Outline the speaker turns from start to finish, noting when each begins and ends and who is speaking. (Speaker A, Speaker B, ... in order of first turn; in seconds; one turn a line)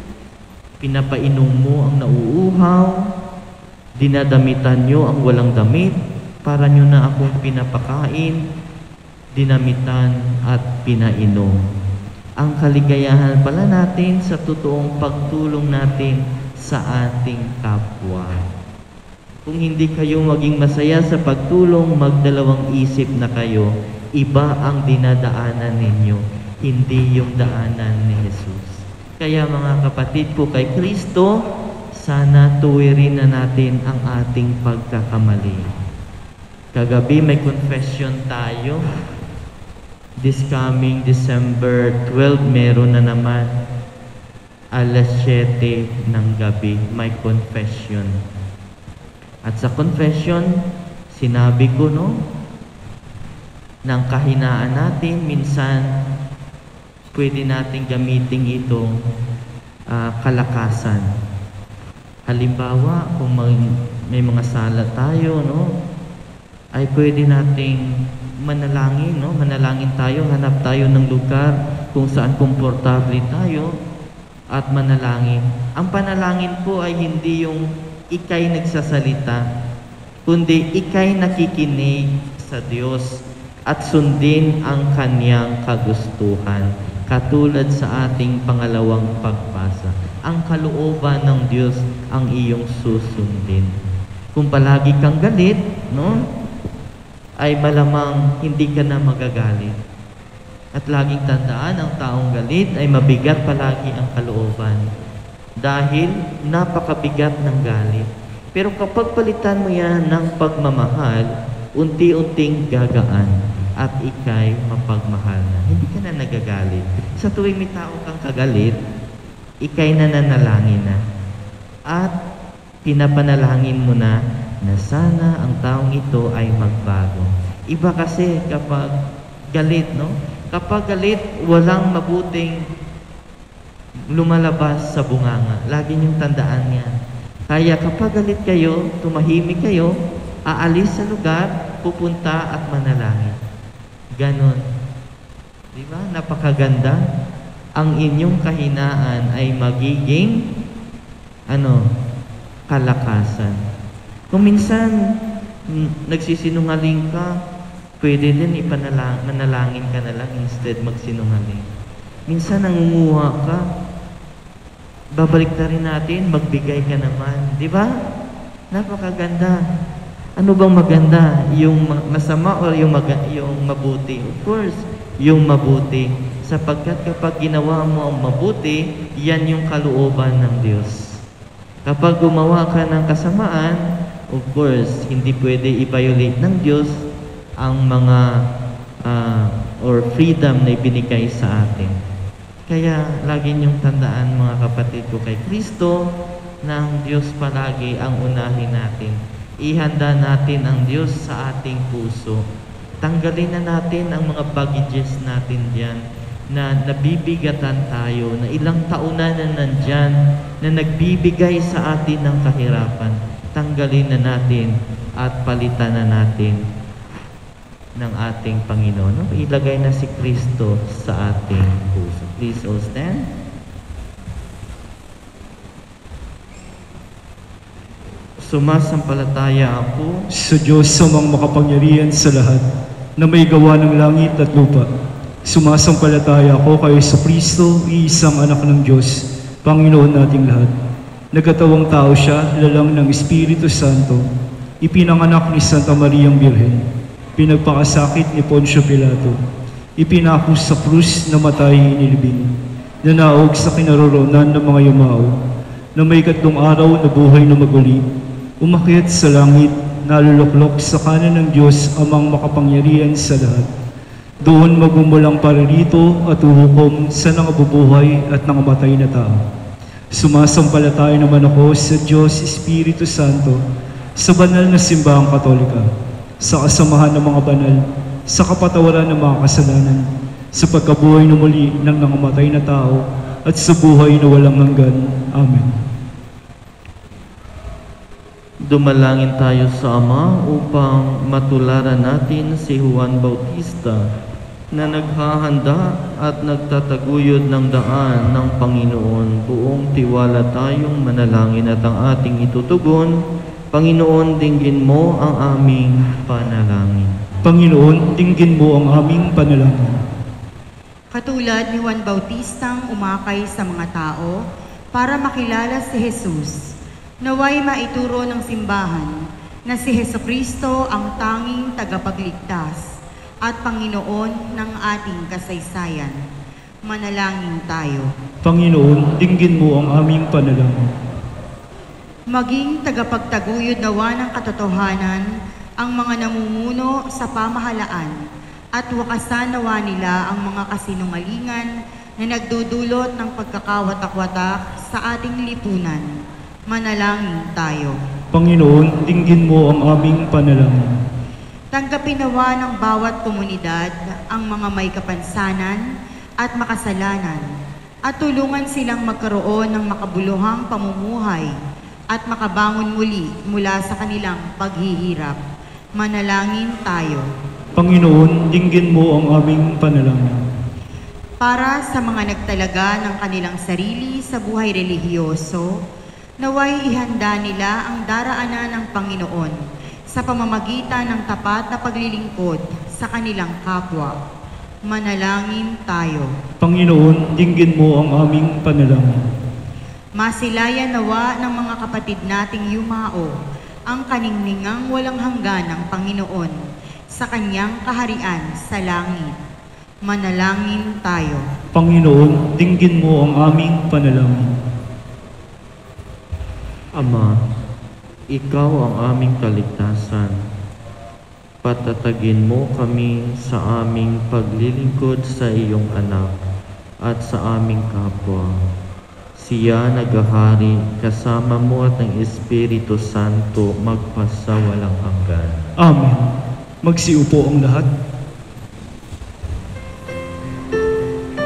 Speaker A: 0.8-2.9
Speaker A: 4.0-8.4
Speaker A: 9.3-11.6
Speaker A: 12.4-18.4
Speaker A: 19.4-31.3
Speaker A: 32.0-35.6
Speaker A: 36.7-38.8
Speaker A: 40.2-43.5
Speaker A: 44.7-48.1
Speaker A: 49.5-50.5
Speaker A: 51.1-52.1
Speaker A: 53.9-55.9
Speaker A: 57.1-58.9
Speaker A: 59.9-61.0
Speaker A: 62.3-63.6
Speaker A: 64.1-65.6
Speaker A: 66.8-67.8
Speaker A: 68.4-73.7
Speaker A: 74.5-77.6
Speaker A: 78.1-79.4
Speaker A: 80.2-83.1
Speaker A: 83.7-93.7
Speaker A: 94.3-96.2
Speaker A: 97.4-99.8
Speaker A: 100.8-104.8
Speaker A: 105.6-118.7
Speaker A: 119.6-121.0
Speaker A: 122.8-128.9
Speaker A: 129.5-132.6
Speaker A: 134.1-136.9
Speaker A: 137.5-139.9
Speaker A: 140.5-143.3
Speaker A: 144.2-144.6
Speaker A: 145.7-147.0
Speaker A: 147.8-150.3
Speaker A: 151.5-151.8
Speaker A: 152.7-153.6
Speaker A: 154.3-154.9
Speaker A: 155.7-157.3
Speaker A: 158.0-161.7
Speaker A: 162.3-163.6
Speaker A: 165.2-167.9
Speaker A: 168.7-169.6
Speaker A: 170.4-181.1
Speaker A: 181.8-183.8
Speaker A: 184.3-186.9
Speaker A: 187.6-188.2
Speaker A: 189.1-191.9
Speaker A: 192.7-195.9
Speaker A: 196.6-202.4
Speaker A: 203.0-206.0
Speaker A: 206.5-216.6
Speaker A: 218.0-223.2
Speaker A: 228.4-230.1
Speaker B: 230.4-232.6
Speaker B: 233.2-234.9
Speaker B: 235.4-240.7
Speaker B: 241.3-244.2
Speaker B: 244.8-246.8
Speaker B: 247.4-249.4
Speaker B: 250.0-252.5
Speaker B: 253.0-255.3
Speaker B: 256.0-258.0
Speaker B: 258.6-263.7
Speaker B: 264.4-269.4
Speaker B: 270.1-273.6
Speaker B: 274.2-275.9
Speaker B: 276.4-285.7
Speaker A: 288.7-294.0
Speaker A: 294.7-303.1
Speaker A: 303.7-307.1
Speaker B: 307.4-309.9
Speaker C: 311.1-314.4
Speaker C: 314.9-316.6
Speaker C: 317.2-319.1
Speaker C: 319.7-322.9
Speaker C: 323.4-326.1
Speaker C: 326.9-328.1
Speaker B: 328.4-330.8
Speaker C: 332.3-335.2
Speaker C: 335.8-338.1
Speaker C: 338.8-346.1
Speaker C: 346.7-347.9
Speaker B: 348.3-350.8
Speaker C: 351.7-355.8
Speaker C: 356.4-357.4
Speaker C: 358.1-361.5
Speaker C: 362.1-365.4
Speaker C: 366.0-367.2
Speaker B: 367.8-370.4
Speaker C: 371.4-375.7
Speaker C: 376.4-379.6
Speaker C: 380.1-384.1
Speaker C: 384.9-386.3
Speaker B: 386.6-389.1
Speaker C: 390.2-393.4
Speaker C: 393.9-396.5
Speaker C: 397.1-399.4
Speaker C: 400.1-401.4
Speaker B: 401.7-404.5
Speaker A: 407.0-407.3
Speaker A: 408.3-410.3
Speaker A: 411.6-416.3
Speaker A: 417.0-418.5
Speaker A: 419.4-425.6
Speaker B: 425.8-426.3
Speaker B: 426.8-427.9